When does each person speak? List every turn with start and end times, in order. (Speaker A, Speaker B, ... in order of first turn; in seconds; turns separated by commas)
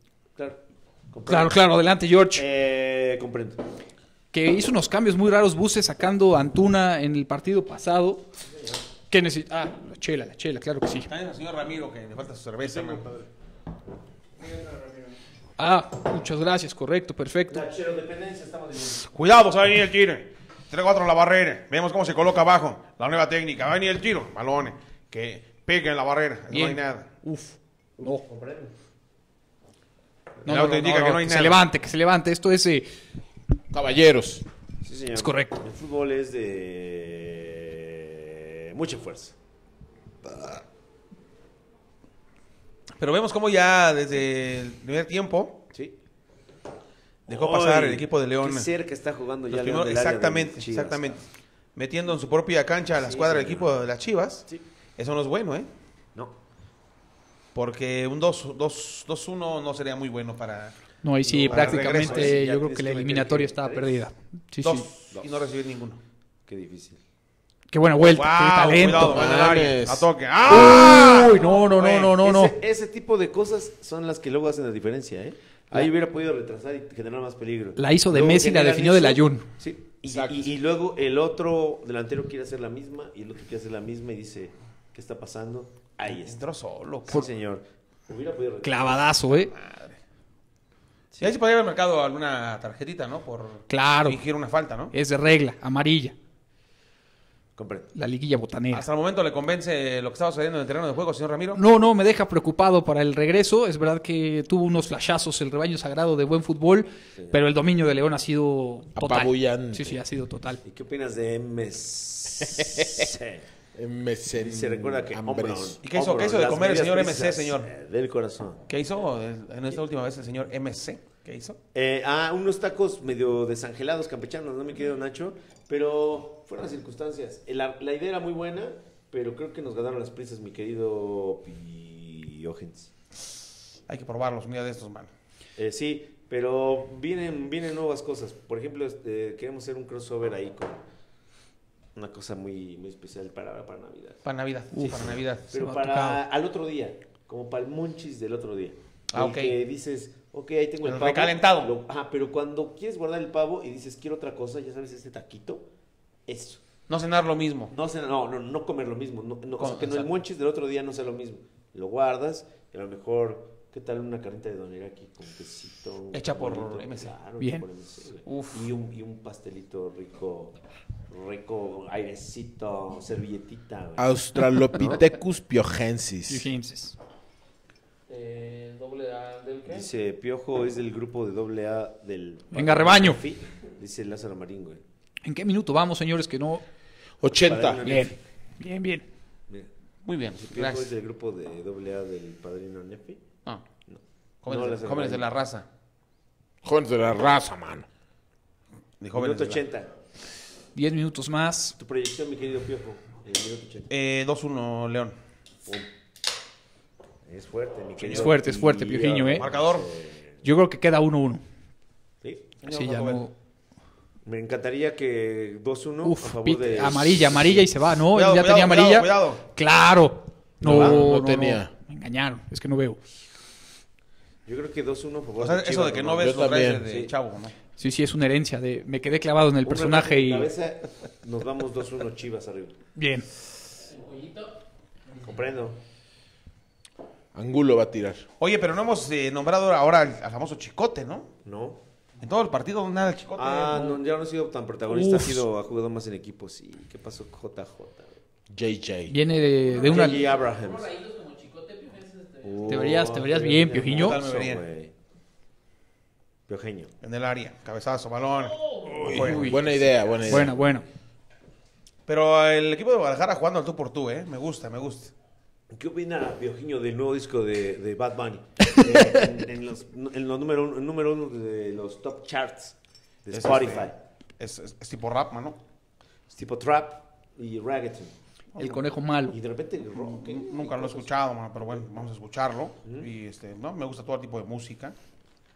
Speaker A: 0.3-1.6, Speaker B: 1.3-2.5, Speaker A: 2.3-3.6, Speaker B: 4.3-8.3, Speaker A: 8.5-8.8, Speaker B: 9.1-11.1, Speaker C: 11.1-13.0, Speaker D: 12.6-13.3, Speaker D: 14.5-15.0, Speaker B: 15.6-17.7, Speaker A: 17.5-19.1, Speaker C: 19.1-27.1, Speaker B: 26.5-28.2, Speaker A: 28.0-28.7, Speaker B: 30.4-32.9, Speaker C: 30.4-31.6, Speaker D: 33.7-34.4, Speaker A: 34.8-39.3, Speaker B: 35.1-35.6, Speaker C: 43.0-45.6, Speaker A: 47.3-51.2, Speaker C: 47.3-48.7, Speaker C: 49.5-51.2, Speaker C: 51.8-55.7, Speaker A: 52.9-53.7, Speaker C: 57.5-60.8, Speaker B: 61.0-64.9, Speaker A: 61.2-64.0, Speaker C: 61.5-62.4, Speaker C: 64.6-66.0, Speaker A: 66.5-67.0, Speaker B: 67.7-69.3, Speaker C: 68.0-71.4, Speaker D: 68.9-70.0, Speaker B: 70.5-72.5, Speaker A: 71.1-86.4, Speaker B: 77.8-79.5, Speaker D: 80.1-80.5, Speaker C: 86.1-87.3, Speaker A: 87.1-89.2, Speaker B: 88.6-89.5, Speaker C: 89.3-90.0, Speaker C: 91.2-94.9, Speaker B: 93.7-94.2, Speaker B: 94.9-96.1, Speaker A: 97.5-97.9, Speaker B: 98.0-98.9, Speaker C: 98.7-101.6, Speaker B: 101.5-110.6, Speaker D: 108.9-110.0, Speaker A: 110.6-113.4, Speaker D: 112.5-113.1, Speaker D: 113.7-115.8, Speaker A: 114.3-118.6, Speaker C: 115.8-117.7, Speaker C: 118.7-121.6, Speaker A: 121.7-132.9, Speaker C: 133.9-135.1, Speaker A: 135.6-140.8, Speaker A: 141.9-144.2, Speaker C: 144.2-145.5, Speaker B: 144.7-146.2, Speaker A: 144.8-155.7, Speaker C: 149.1-149.6, Speaker C: 150.8-151.7, Speaker A: 156.3-156.6, Speaker C: 156.9-157.7, Speaker A: 157.7-170.5, Speaker C: 159.6-160.1, Speaker C: 166.1-167.1, Speaker B: 167.4-167.7, Speaker A: 171.1-174.1, Speaker D: 174.0-176.5, Speaker B: 176.3-176.9, Speaker E: 178.1-179.9, Speaker A: 179.7-184.8, Speaker B: 182.5-183.2, Speaker B: 185.2-186.6, Speaker D: 187.2-187.8, Speaker A: 187.3-188.2, Speaker B: 187.8-189.0, Speaker C: 190.0-190.9, Speaker A: 190.4-193.2, Speaker A: 193.9-195.3, Speaker C: 194.4-195.7, Speaker D: 196.6-197.8, Speaker C: 199.0-199.6, Speaker A: 199.1-199.9, Speaker B: 200.7-201.7, Speaker A: 201.8-203.9, Speaker C: 203.9-205.1, Speaker A: 207.2-210.4, Speaker C: 208.0-208.3, Speaker B: 208.1-209.4, Speaker C: 209.4-209.9, Speaker B: 210.4-211.4, Speaker C: 212.6-213.2, Speaker B: 212.7-213.3, Speaker A: 214.2-217.7, Speaker B: 216.0-223.0, Speaker C: 218.1-219.4, Speaker D: 220.6-221.7, Speaker A: 220.6-221.0, Speaker A: 224.4-227.1, Speaker C: 225.4-227.5, Speaker D: 226.2-226.8, Speaker B: 227.8-230.5, Speaker A: 229.6-232.8, Speaker B: 232.9-233.2, Speaker E: 233.8-234.6, Speaker A: 235.2-235.8, Speaker D: 237.3-238.2, Speaker C: 238.4-241.3, Speaker A: 241.4-241.8, Speaker C: 242.2-244.0, Speaker A: 243.3-248.2, Speaker B: 244.9-245.4, Speaker D: 248.5-249.2, Speaker B: 249.1-250.3, Speaker E: 249.7-252.9, Speaker A: 249.7-250.9, Speaker A: 252.4-254.9, Speaker B: 252.7-254.2, Speaker C: 253.9-254.6, Speaker A: 256.5-256.9, Speaker C: 257.0-259.6, Speaker E: 258.5-259.1, Speaker D: 259.0-260.6, Speaker B: 259.1-260.8, Speaker A: 260.3-260.8, Speaker C: 262.1-265.1, Speaker A: 265.7-273.9, Speaker C: 273.3-275.6, Speaker A: 276.3-278.1, Speaker B: 278.6-279.4, Speaker A: 279.3-281.1, Speaker C: 279.9-284.9, Speaker A: 282.8-283.1